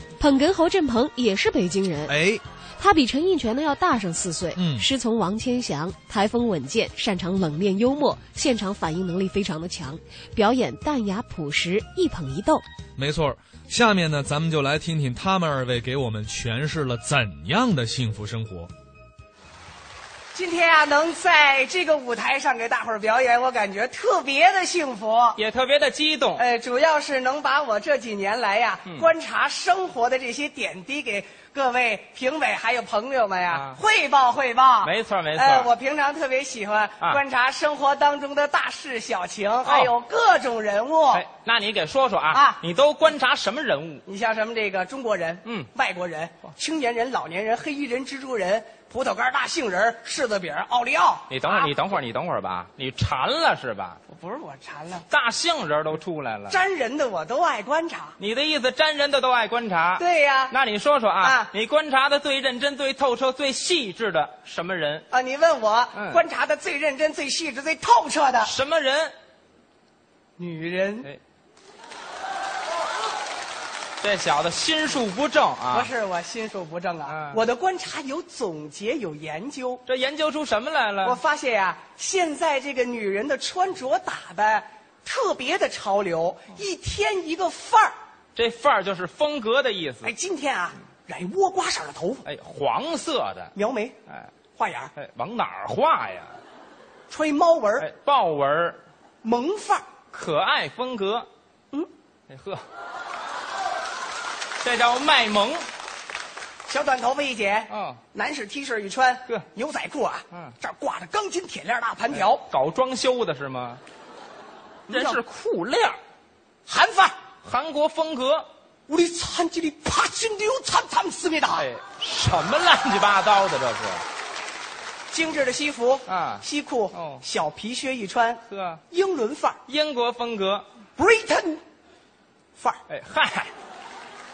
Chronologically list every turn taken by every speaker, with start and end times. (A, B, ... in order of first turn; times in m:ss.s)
0:00.2-0:02.1 A
0:02.1-0:02.4 B
0:02.8-0:12.6 A
0:04.6-0:04.8 B
0:13.0-0:18.7 B
0:20.3-0:25.4 C
0:25.4-0:26.4 D
0:26.4-0:41.3 C
0:33.5-0:33.8 D
0:34.8-0:35.7 D
0:39.6-0:39.9 D
0:41.1-0:44.0 D
0:42.3-0:42.6 C
0:44.0-0:51.8 C
0:51.3-0:54.0 D
0:54.1-0:55.1 C
0:55.1-0:56.6 D
0:56.5-0:58.2 C
0:58.2-1:05.1 D
1:00.0-1:00.6 C
1:01.2-1:01.5 C
1:05.1-1:08.5 C
1:05.9-1:06.2 D
1:08.4-1:09.1 D
1:10.4-1:11.1 C
1:14.0-1:15.9 D
1:15.7-1:19.8 C
1:17.1-1:17.4 D
1:19.9-1:21.2 D
1:21.0-1:27.9 C
1:28.4-1:30.1 D
1:30.0-1:32.3 C
1:32.2-1:33.5 D
1:33.5-1:34.0 C
1:34.6-1:34.9 C
1:35.0-1:36.4 D
1:37.1-1:37.9 C
1:37.8-1:38.8 D
1:39.2-1:39.9 C
1:40.1-1:41.3 D
1:42.3-1:42.6 D
1:44.6-1:45.7 D
1:46.7-1:52.5 C
1:47.7-1:48.0 D
1:52.1-1:53.8 D
1:54.9-1:55.2 C
1:54.9-1:56.0 D
1:56.7-1:57.2 C
1:57.4-1:58.5 D
1:58.9-2:01.7 C
2:01.6-2:04.0 D
2:05.1-2:09.6 C
2:06.1-2:07.2 D
2:08.5-2:08.8 D
2:09.7-2:10.7 D
2:11.0-2:11.6 C
2:12.6-2:12.8 C
2:12.9-2:13.5 D